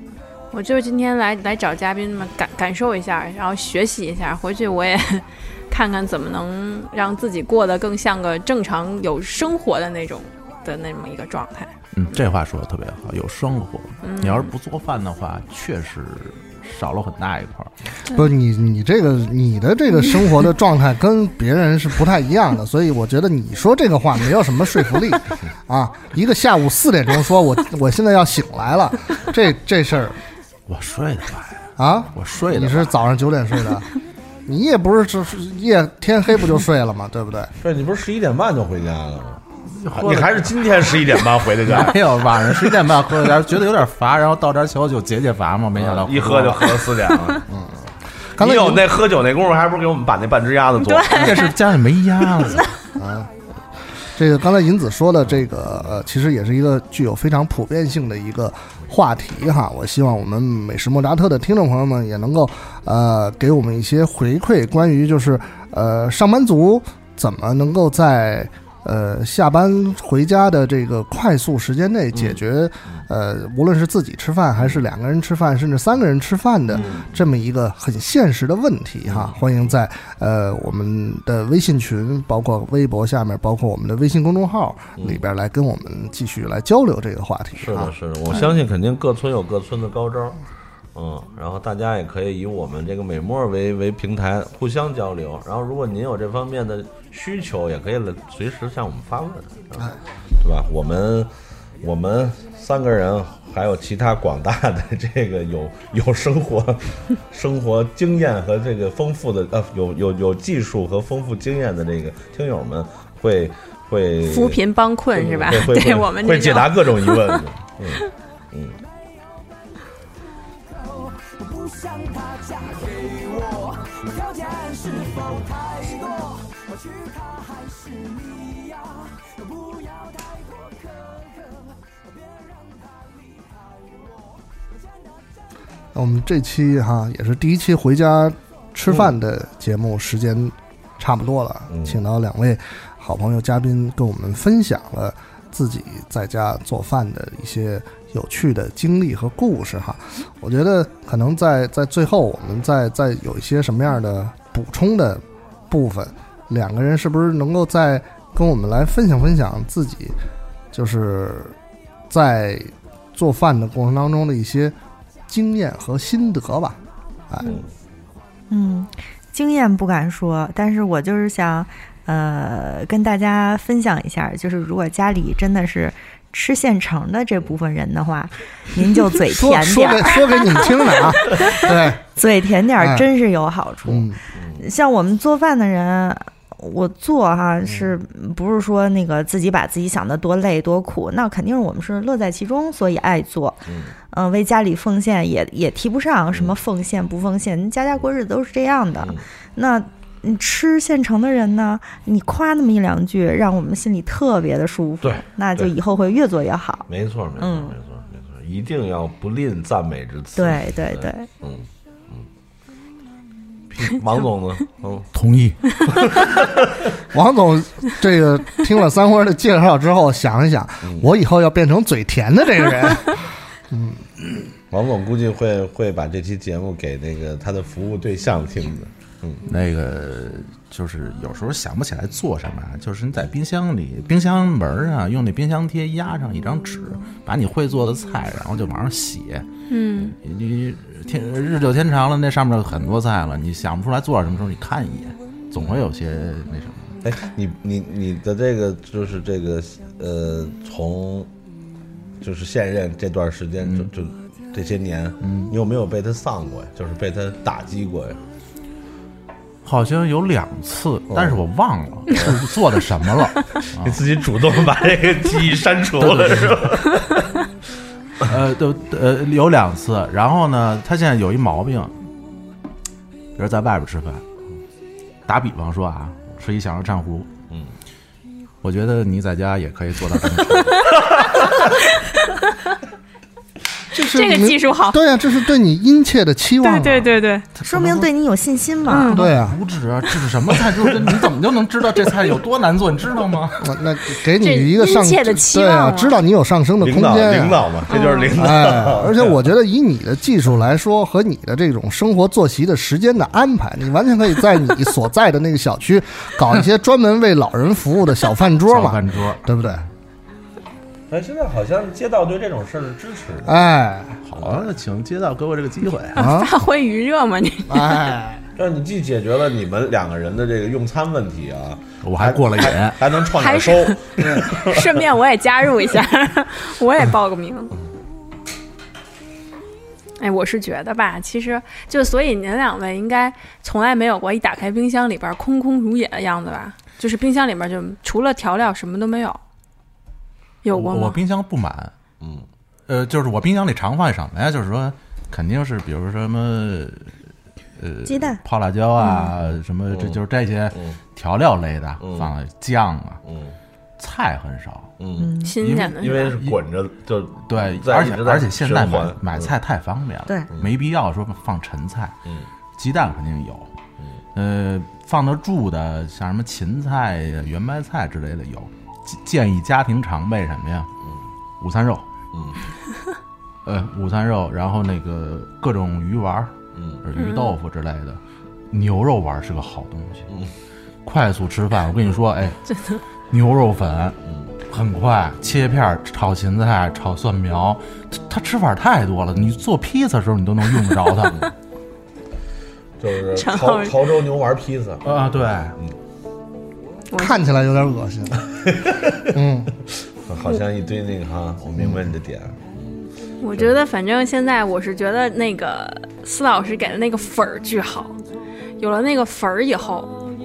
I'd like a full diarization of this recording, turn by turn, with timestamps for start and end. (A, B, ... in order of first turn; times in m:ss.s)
0:00.5-0:11.8 A
0:11.9-0:17.7 B
0:14.0-0:14.5 A
0:18.1-0:30.2 C
0:30.7-0:32.9 B
0:31.8-0:33.9 C
0:34.5-0:37.5 C
0:37.6-0:42.5 D
0:39.7-0:40.5 B
0:41.6-0:46.9 B
0:45.8-0:47.4 D
0:47.5-0:48.9 C
0:48.4-0:51.5 D
0:50.8-0:51.5 A
0:51.1-0:52.7 B
0:53.0-0:53.3 C
0:54.1-1:27.9 C
0:55.2-0:56.0 D
1:16.7-1:17.3 D
1:19.1-1:19.4 D
1:27.6-1:30.4 D
1:31.0-1:54.6 D
1:54.2-1:57.4 A
1:55.2-1:58.8 D
2:00.7-2:14.4 E
2:15.9-2:40.2 C
2:21.7-2:22.0 D
2:40.7-2:41.6 C
2:42.1-2:44.8 C
2:45.3-2:47.6 C
2:48.5-3:00.2 F
2:59.3-3:02.0 C
3:02.1-3:27.8 F
3:02.8-3:03.1 C
3:03.9-3:04.2 C
3:04.4-3:04.6 D
3:13.7-3:13.9 D
3:19.0-3:19.2 D
3:25.0-3:25.7 D
3:26.9-3:32.3 D
3:30.4-3:31.3 F
3:33.7-3:35.1 D
3:35.1-3:35.8 B
3:35.9-3:36.9 D
3:37.1-3:44.3 C
3:40.8-3:41.1 D
3:44.7-3:49.4 D
3:49.5-3:59.5 B
3:59.7-4:00.2 A
4:00.1-4:07.0 B
4:07.0-4:11.3 D
4:12.2-4:18.2 D
4:13.6-4:13.9 B
4:15.2-4:15.5 B
4:19.6-4:24.0 B
4:21.1-4:21.4 D
4:23.8-4:27.4 D
4:26.0-4:26.6 B
4:28.2-4:31.9 B
4:33.4-4:34.2 B
4:35.3-4:37.3 B
4:38.6-4:41.0 B
4:42.0-4:42.8 A
4:43.9-4:47.1 C
4:44.0-4:45.0 A
4:46.6-4:47.5 A
4:47.6-4:48.1 B
4:47.6-4:49.3 F
4:48.9-4:49.3 A
4:49.1-4:53.8 B
4:49.1-4:49.6 C
4:53.6-4:57.8 C
4:54.4-4:56.2 A
4:56.8-4:59.4 D
4:57.9-4:58.3 A
4:58.4-5:09.8 C
5:08.7-5:09.4 B
5:11.1-5:13.6 D
5:13.4-5:14.2 C
5:14.2-5:16.3 B
5:14.4-5:14.7 D
5:16.2-5:16.5 C
5:16.2-5:18.1 A
5:17.7-5:18.4 C
5:18.6-5:25.0 D
5:22.0-5:23.0 B
5:23.2-5:27.7 A
5:30.2-5:39.4 A
5:40.6-5:41.2 A
5:40.7-5:41.9 B
5:42.2-5:42.5 D
5:42.9-5:47.1 B
5:47.8-5:53.2 B
5:48.0-5:48.4 F
5:49.9-5:50.2 D
5:52.0-5:52.3 D
5:53.2-5:53.6 D
5:54.0-5:54.9 B
5:55.0-5:59.5 D
5:55.2-5:55.6 F
5:55.4-5:56.4 A
5:55.6-5:56.6 B
5:57.5-6:02.2 B
6:02.8-6:03.7 B
6:04.4-6:10.9 B
6:11.6-6:12.1 B
6:12.3-6:12.6 D
6:13.6-6:16.5 B
6:16.8-6:17.0 D
6:17.0-6:18.2 B
6:17.2-6:17.6 A
6:18.7-6:20.3 B
6:21.0-6:22.6 B
6:23.3-6:24.2 B
6:24.7-6:31.4 B
6:33.0-6:35.2 D
6:33.3-6:34.1 A
6:35.0-6:35.8 B
6:37.1-6:37.4 A
6:37.2-6:38.4 C
6:38.5-6:39.4 D
6:39.3-6:39.7 C
6:40.2-6:43.0 D
6:43.4-6:48.2 A
6:48.8-6:50.2 A